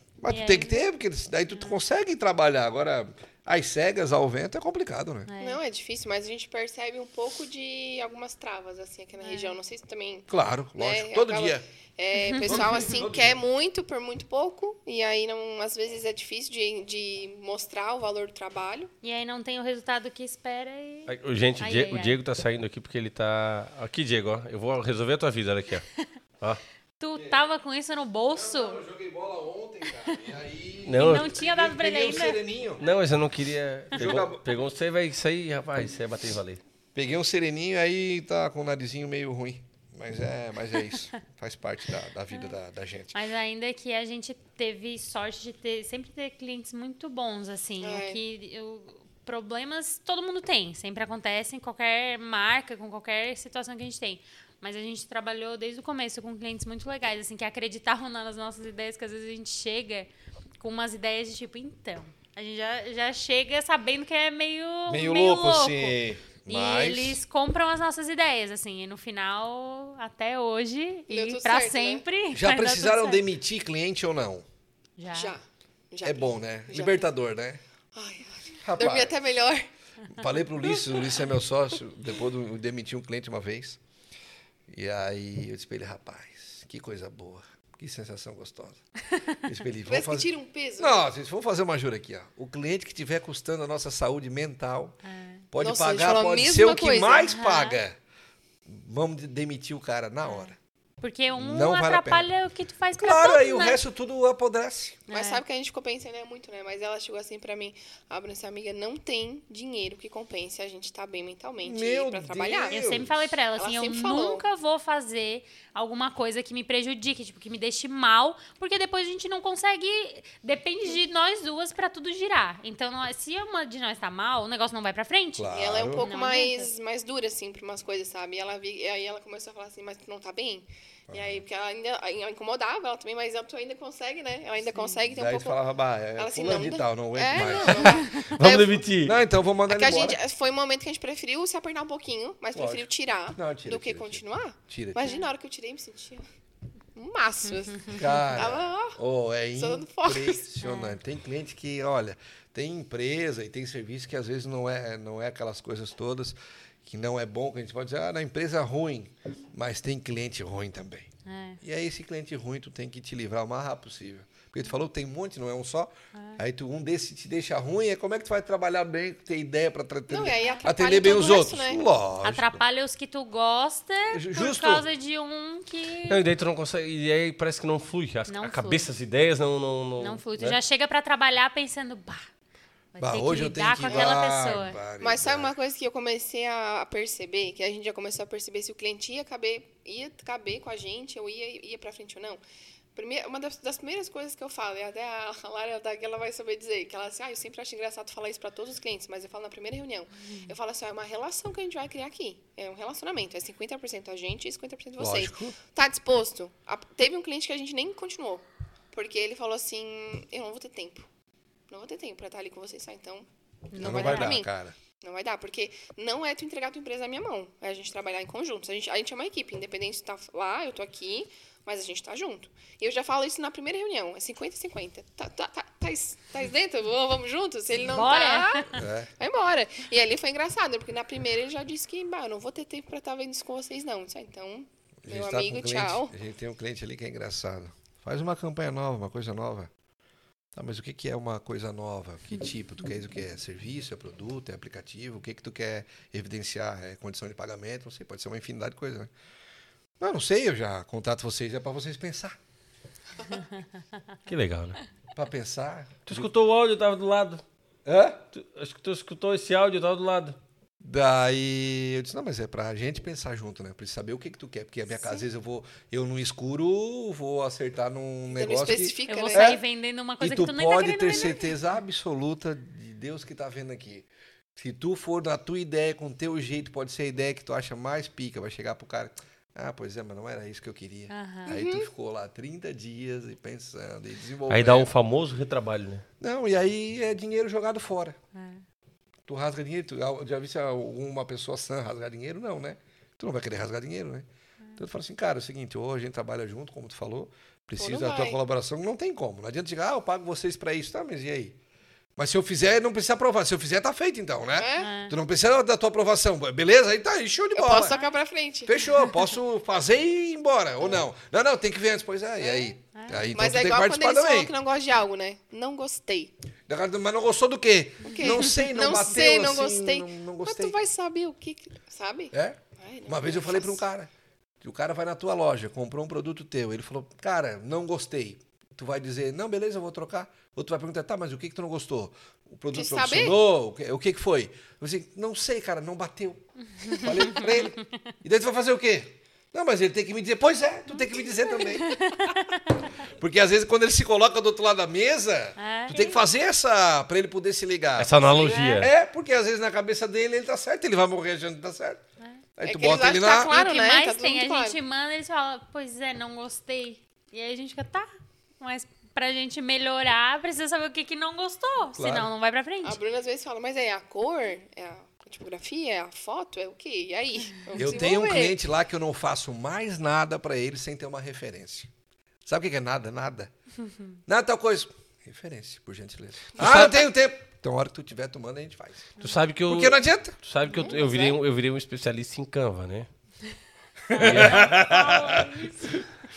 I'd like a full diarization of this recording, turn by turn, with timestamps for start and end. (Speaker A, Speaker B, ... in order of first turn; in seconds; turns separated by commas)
Speaker A: 0.2-5.3, Speaker B: 0.3-0.8, Speaker B: 1.5-1.8, Speaker B: 5.3-5.6, Speaker C: 5.4-18.9, Speaker B: 9.2-9.6, Speaker A: 10.3-11.6, Speaker B: 12.1-13.0, Speaker A: 12.4-13.4, Speaker B: 19.0-22.2, Speaker D: 21.1-25.9, Speaker B: 27.0-28.8, Speaker A: 27.1-27.4, Speaker A: 28.3-32.8, Speaker D: 30.8-31.4, Speaker B: 30.9-32.4, Speaker D: 32.8-36.6, Speaker A: 33.9-34.5, Speaker A: 36.9-43.1, Speaker B: 43.1-73.2, Speaker C: 47.8-48.2, Speaker A: 64.9-67.2, Speaker C: 71.1-72.0, Speaker A: 72.3-74.5, Speaker B: 75.0-75.3, Speaker C: 75.1-77.1, Speaker A: 76.0-77.6, Speaker C: 77.9-79.7, Speaker A: 78.6-79.2, Speaker A: 80.1-83.8, Speaker C: 80.7-81.1, Speaker A: 84.7-88.8, Speaker A: 89.4-95.0, Speaker C: 89.8-91.0, Speaker B: 95.0-95.4, Speaker A: 95.5-98.0, Speaker C: 95.6-97.3, Speaker B: 97.3-97.8, Speaker A: 98.7-100.5, Speaker B: 101.0-103.8, Speaker A: 101.3-102.3, Speaker A: 103.0-105.0, Speaker B: 105.1-105.4, Speaker C: 105.1-112.8, Speaker A: 111.6-113.2, Speaker B: 112.7-126.7, Speaker C: 113.6-114.4, Speaker A: 125.4-126.0, Speaker C: 125.5-135.6, Speaker A: 131.1-131.4, Speaker B: 134.7-135.0, Speaker A: 135.1-138.1, Speaker C: 136.2-138.8, Speaker D: 138.2-139.2, Speaker A: 139.0-140.2, Speaker C: 139.7-146.2, Speaker A: 142.5-145.1, Speaker B: 145.0-145.3, Speaker C: 146.9-149.0, Speaker B: 147.5-148.1, Speaker A: 147.9-161.1, Speaker C: 149.6-150.5, Speaker B: 150.6-151.0, Speaker B: 161.2-161.6, Speaker A: 161.6-172.6, Speaker B: 166.1-166.4, Speaker C: 170.1-171.8, Speaker B: 170.3-170.7, Speaker B: 172.2-176.2, Speaker A: 174.1-174.8, Speaker D: 176.1-180.6, Speaker B: 178.3-178.9, Speaker B: 180.0-182.3, Speaker B: 182.9-184.8, Speaker A: 183.0-185.5, Speaker C: 183.8-184.2, Speaker C: 185.0-192.4, Speaker C: 192.9-211.1, Speaker B: 200.2-200.5, Speaker A: 205.0-205.6, Speaker C: 211.7-214.5, Speaker B: 213.7-214.4, Speaker A: 213.8-214.7, Speaker C: 215.0-236.1, Speaker B: 227.8-228.8, Speaker A: 228.7-229.1, Speaker A: 235.0-239.7, Speaker A: 240.5-249.1, Speaker A: 250.0-252.4, Speaker B: 253.3-253.6, Speaker D: 254.3-254.8, Speaker A: 255.1-256.3, Speaker D: 256.1-257.4, Speaker A: 257.9-258.2, Speaker D: 258.3-260.4, Speaker A: 260.8-269.6, Speaker C: 268.3-269.6, Speaker B: 269.1-271.5, Speaker A: 270.2-284.9, Speaker B: 281.1-281.5, Speaker C: 281.5-281.9, Speaker D: 284.5-286.0, Speaker A: 286.2-288.2, Speaker B: 288.3-288.6, Speaker A: 289.3-294.2, Speaker A: 294.8-301.6, Speaker C: 297.8-298.4, Speaker A: 302.2-307.9, Speaker C: 304.6-304.9, Speaker B: 304.8-305.1, Speaker C: 307.5-308.7, Speaker B: 307.9-308.1, Speaker A: 308.6-314.5, Speaker C: 312.4-312.7, Speaker B: 312.9-313.3, Speaker C: 313.3-316.3, Speaker A: 316.7-320.8, Speaker C: 318.0-323.8, Speaker B: 318.0-318.4, Speaker A: 322.3-324.1, Speaker A: 324.6-341.9, Speaker C: 332.7-333.4, Speaker B: 336.8-337.9, Speaker B: 341.5-342.9, Speaker A: 343.2-348.2, Speaker B: 345.6-346.2, Speaker D: 348.0-348.9, Speaker B: 348.4-348.9, Speaker A: 348.8-352.0, Speaker A: 352.6-353.5, Speaker C: 352.6-354.8, Speaker B: 353.5-363.0, Speaker A: 361.9-362.3, Speaker C: 362.8-368.6, Speaker A: 367.8-371.9, Speaker A: 372.4-373.5, Speaker A: 374.3-379.1, Speaker D: 376.6-377.0, Speaker C: 376.6-376.9, Speaker D: 379.2-383.1, Speaker A: 379.7-380.4, Speaker C: 380.7-381.4, Speaker A: 384.1-385.4, Speaker B: 384.1-386.1, Speaker D: 384.2-384.7